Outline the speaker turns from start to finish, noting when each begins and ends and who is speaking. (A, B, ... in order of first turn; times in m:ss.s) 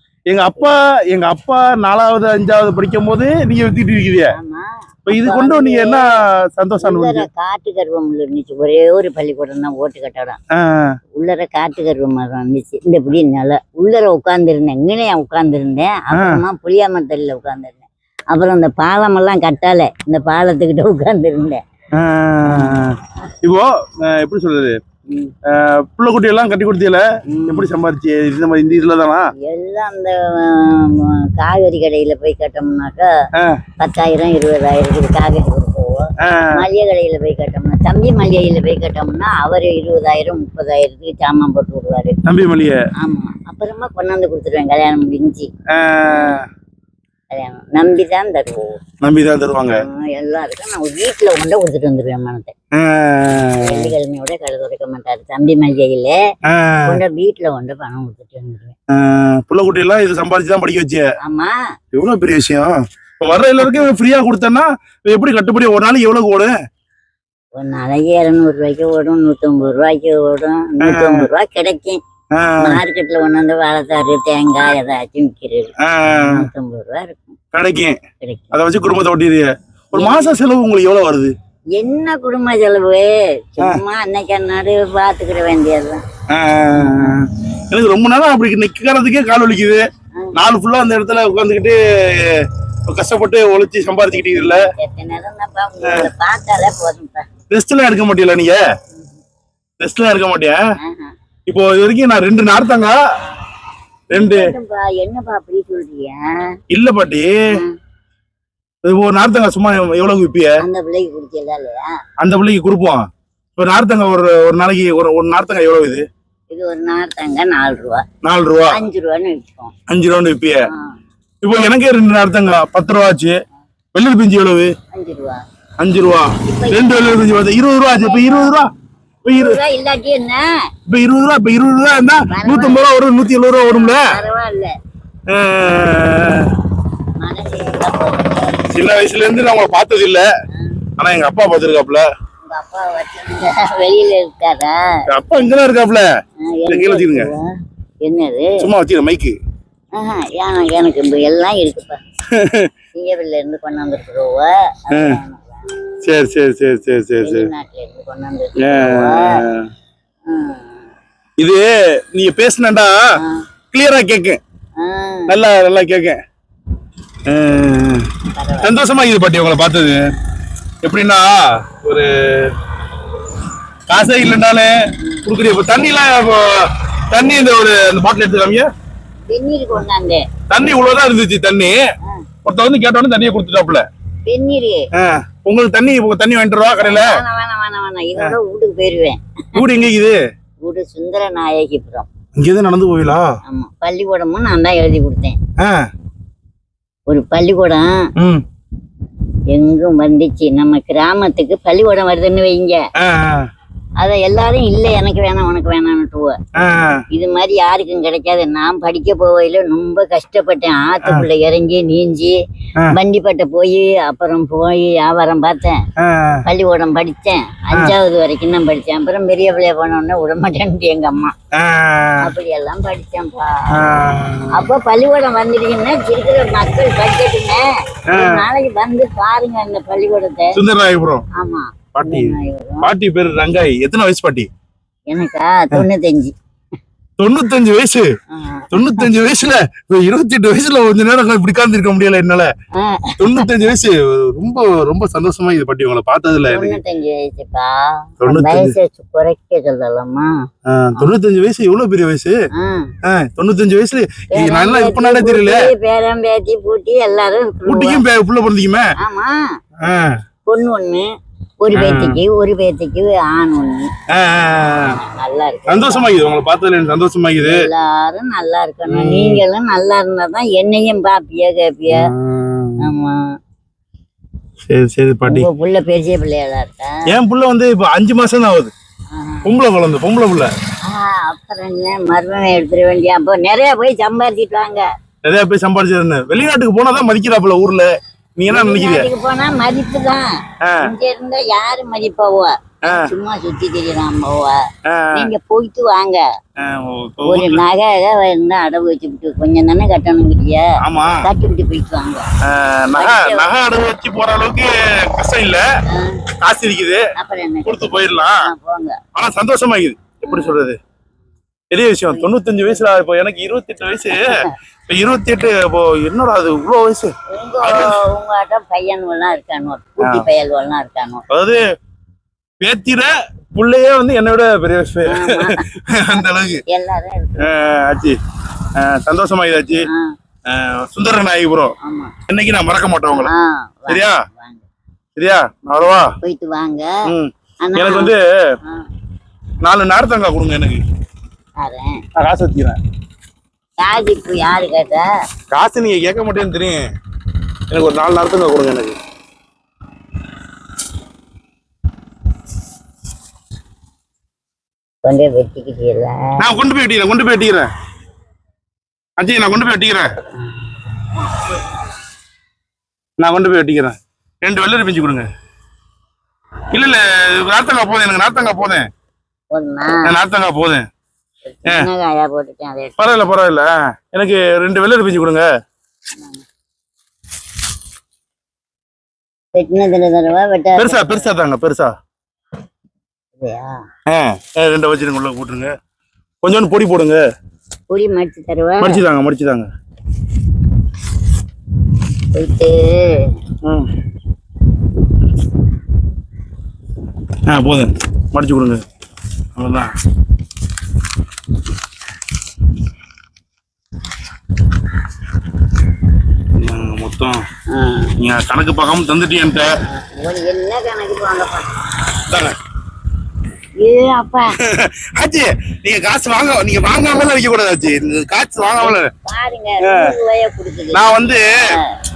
0:00.3-0:04.3 A
0:04.3-0:06.0 B
0:05.1-0:07.3 A
0:06.8-0:10.4 B
0:10.5-0:11.0 A
0:11.2-0:21.6 B
0:16.1-0:16.4 A
0:21.9-0:24.8 A
0:22.5-0:22.8 B
0:25.1-0:25.3 B
0:25.4-0:29.3 A
0:27.3-0:27.7 B
0:29.4-0:33.1 B
0:33.4-0:33.6 A
0:33.8-0:42.2 B
0:36.2-0:36.7 A
0:42.2-0:42.8 A
0:43.0-0:45.5 B
0:45.7-0:46.4 A
0:46.1-0:46.4 B
0:47.3-0:48.8 B
0:49.0-0:49.8 A
0:49.7-0:52.5 B
0:52.7-0:53.9 A
0:53.6-0:56.2 B
0:56.5-0:57.0 A
0:56.9-0:58.7 B
0:58.9-1:01.0 A
1:01.2-1:01.6 B
1:01.9-1:06.5 A
1:07.5-1:12.0 B
1:10.8-1:11.3 A
1:12.3-1:12.8 A
1:12.6-1:17.4 B
1:15.8-1:16.5 A
1:17.5-1:18.0 A
1:18.2-1:18.6 B
1:18.5-1:21.3 A
1:19.9-1:20.3 B
1:21.8-1:26.0 B
1:26.3-1:34.6 A
1:26.8-1:27.1 B
1:34.2-1:37.3 B
1:35.8-1:36.1 A
1:37.5-1:38.6 A
1:39.8-1:40.6 A
1:40.8-1:41.1 B
1:41.5-1:43.0 A
1:44.1-1:44.5 A
1:44.1-1:46.6 B
1:46.7-1:47.6 A
1:47.5-1:47.8 B
1:48.8-1:50.6 A
1:50.6-1:51.9 B
1:52.2-1:53.0 A
1:53.6-1:56.0 A
1:56.5-1:58.0 B
1:58.2-1:58.8 A
1:58.7-1:59.7 B
1:59.9-2:00.7 A
2:00.6-2:01.0 B
2:01.4-2:03.4 A
2:03.9-2:04.7 A
2:04.9-2:05.4 B
2:05.8-2:08.7 A
2:06.4-2:07.3 B
2:07.9-2:08.6 B
2:09.2-2:09.6 A
2:09.3-2:10.5 B
2:10.9-2:14.1 A
2:12.3-2:12.9 B
2:13.6-2:14.7 B
2:15.3-2:16.6 A
2:17.2-2:18.6 B
2:18.7-2:20.3 A
2:20.5-2:20.8 B
2:21.0-2:22.1 A
2:22.4-2:25.0 B
2:25.1-2:26.1 A
2:26.4-2:27.5 B
2:26.7-2:27.3 A
2:28.0-2:28.6 B
2:28.6-2:29.4 A
2:29.9-2:32.0 B
2:32.3-2:32.7 A
2:32.9-2:35.6 B
2:34.9-2:35.2 A
2:36.0-2:37.5 A
2:37.2-2:39.4 B
2:38.6-2:39.7 A
2:40.3-2:40.9 B
2:41.4-2:43.0 A
2:43.2-2:43.4 B
2:43.7-2:44.4 A
2:44.8-2:45.4 B
2:45.3-2:46.2 A
2:47.2-2:50.0 A
2:48.3-2:48.7 B
2:50.8-2:52.6 A
2:53.9-2:54.7 A
2:55.0-2:55.3 B
2:55.2-2:58.7 A
2:59.3-3:00.2 B
3:00.5-3:01.8 A
3:02.4-3:03.8 A
3:04.2-3:04.9 B
3:04.9-3:07.2 A
3:06.8-3:09.6 B
3:09.5-3:10.2 A
3:10.6-3:12.1 B
3:12.3-3:13.4 A
3:13.4-3:15.4 B
3:15.6-3:15.9 A
3:17.1-3:18.0 B
3:18.2-3:18.4 A
3:19.5-3:22.8 B
3:23.0-3:23.5 A
3:24.0-3:26.4 B
3:26.6-3:27.0 A
3:27.1-3:32.4 B
3:32.9-3:35.8 B
3:36.0-3:36.4 A
3:36.4-3:41.3 B
3:41.5-3:42.3 A
3:42.2-3:43.7 B
3:43.7-3:44.7 A
3:44.5-3:50.6 B
3:48.1-3:48.5 A
3:50.5-3:51.2 A
3:51.4-3:52.9 B
3:51.9-3:54.5 A
3:55.1-3:56.3 B
3:57.2-3:58.1 A
3:58.3-3:59.1 B
3:58.7-4:02.5 A
4:02.7-4:03.5 B
4:03.2-4:06.8 A
4:06.4-4:10.3 B
4:08.2-4:08.8 A
4:10.7-4:12.3 A
4:12.6-4:12.9 B
4:13.0-4:15.7 A
4:14.3-4:18.0 B
4:17.6-4:18.9 A
4:19.0-4:19.5 B
4:19.8-4:20.2 A
4:20.5-4:21.1 B
4:21.6-4:23.9 B
4:21.7-4:22.2 A
4:24.1-4:25.0 A
4:24.9-4:26.1 B
4:25.7-4:27.7 A
4:27.4-4:32.1 B
4:28.9-4:29.4 A
4:31.9-4:32.9 A
4:32.8-4:33.3 B
4:34.6-4:35.5 A
4:35.3-4:37.1 B
4:37.1-4:38.7 A
4:39.1-4:39.5 B
4:39.4-4:40.5 A
4:40.8-4:44.8 B
4:45.2-4:49.1 A
4:48.5-4:50.3 B
4:50.6-4:50.9 A
4:50.8-4:56.2 B
4:52.8-4:53.1 A
4:54.8-4:55.3 A
4:56.6-4:57.6 A
4:57.2-5:00.7 B
5:00.8-5:01.2 A
5:01.2-5:02.2 B
5:02.4-5:05.6 A
5:02.9-5:03.5 B
5:05.9-5:06.2 B
5:06.4-5:07.1 A
5:07.2-5:09.0 B
5:07.6-5:08.4 A
5:09.1-5:10.8 A
5:10.2-5:10.6 B
5:11.7-5:18.0 A
5:12.0-5:12.7 B
5:14.2-5:14.5 B
5:17.3-5:21.2 B
5:20.0-5:20.3 A
5:21.3-5:21.6 A
5:22.6-5:26.6 A
5:25.1-5:25.7 B
5:26.7-5:27.5 B
5:27.4-5:28.2 A
5:28.7-5:29.9 A
5:29.8-5:30.1 B
5:30.5-5:31.7 A
5:31.8-5:32.1 B
5:32.3-5:33.3 A
5:33.2-5:34.6 B
5:33.9-5:34.2 A
5:35.2-5:36.1 A
5:36.2-5:36.9 B
5:37.1-5:38.5 A
5:37.6-5:38.1 B
5:39.6-5:40.8 A
5:41.6-5:42.0 B
5:42.1-5:42.8 A
5:43.8-5:45.1 B
5:45.5-5:46.8 A
5:47.7-5:49.0 A
5:55.0-5:56.4 B
5:56.4-5:57.7 A
5:59.2-6:00.1 A
6:03.2-6:05.3 A
6:06.7-6:08.9 A
6:09.5-6:10.1 B
6:10.0-6:10.8 A
6:11.4-6:13.0 B
6:13.0-6:15.5 A
6:16.2-6:16.4 B
6:19.5-6:21.3 B
6:20.8-6:21.9 A
6:23.4-6:23.8 B
6:24.1-6:25.7 A
6:26.4-6:27.2 A
6:27.9-6:29.0 B
6:28.8-6:29.7 A
6:32.3-6:33.3 B
6:33.6-6:33.9 A
6:37.4-6:38.8 A
6:39.6-6:39.9 A
6:46.6-6:47.4 A
6:47.7-6:48.1 B
6:48.2-6:49.7 A
6:49.9-6:51.9 B
6:52.2-6:52.6 A
6:53.8-6:54.6 B
6:54.6-6:59.1 A
6:58.8-7:02.0 B
6:59.8-7:00.1 A
7:00.9-7:01.7 A